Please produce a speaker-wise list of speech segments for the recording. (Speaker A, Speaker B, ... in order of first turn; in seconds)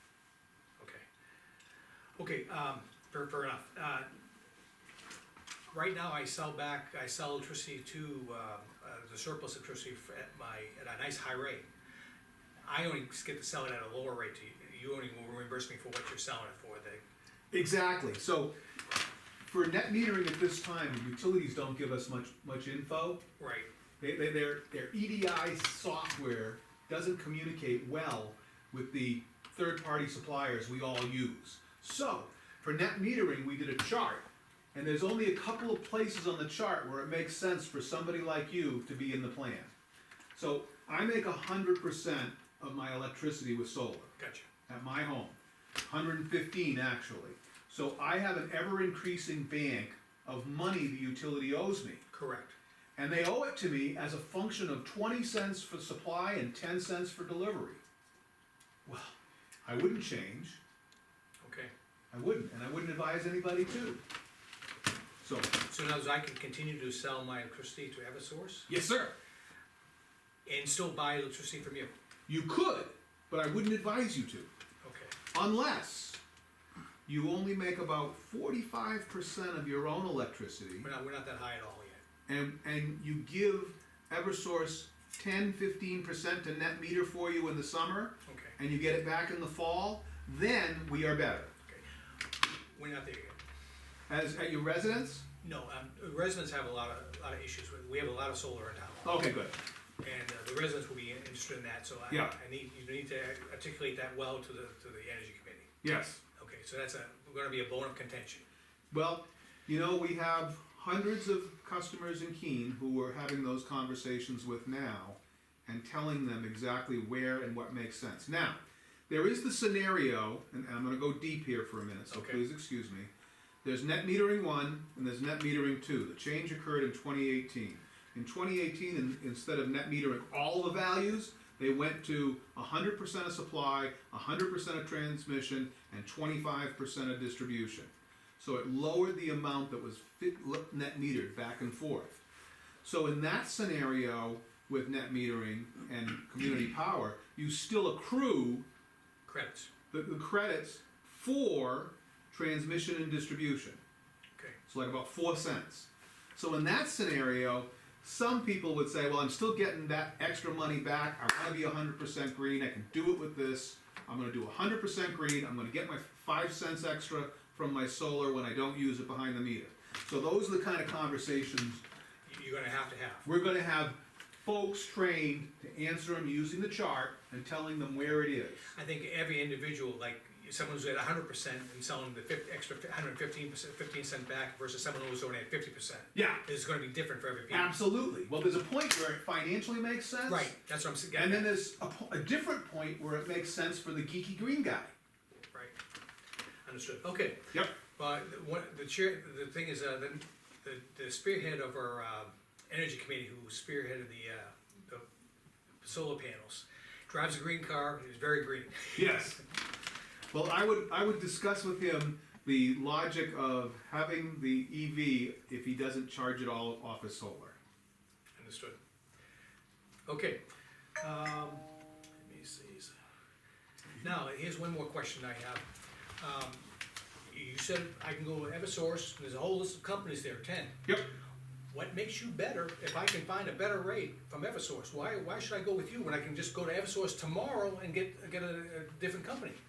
Speaker A: 0.8-1.1, 2.2-4.1, 5.7-11.7, 12.7-17.0, 23.4-23.7, 44.2-44.5, 52.1-52.5, 61.4-61.7, 65.7-68.7, 70.5-71.9, 74.8-75.2, 80.8-82.0, 88.3-88.6, 92.7-93.4, 95.4-99.2, 100.0-105.7, 106.4-108.5, 122.1-122.4, 149.3-149.7, 172.3-173.3, 178.7-187.8, 190.3-191.6, 195.5-195.8, 196.7-205.1, 205.8-209.3, 218.4-218.8, 220.1-220.4, 221.0-221.7, 222.2-223.0, 224.0-226.7, 227.3-230.8, 231.7-239.6
Speaker B: 17.5-18.6, 19.5-23.2, 24.0-39.7, 40.3-44.1, 44.7-52.0, 53.0-57.8, 58.9-60.6, 62.1-64.0, 65.2-65.5, 68.7-69.1, 72.3-74.5, 75.3-76.2, 77.1-80.9, 82.3-91.5, 94.1-95.2, 99.0-99.6, 102.1-102.3, 105.8-106.2, 108.9-123.1, 123.6-142.2, 142.8-148.7, 149.9-153.8, 154.7-171.8, 173.2-178.7, 186.1-186.4, 187.5-190.6, 191.2-194.9, 209.0-209.4, 210.3-217.6, 230.9-231.1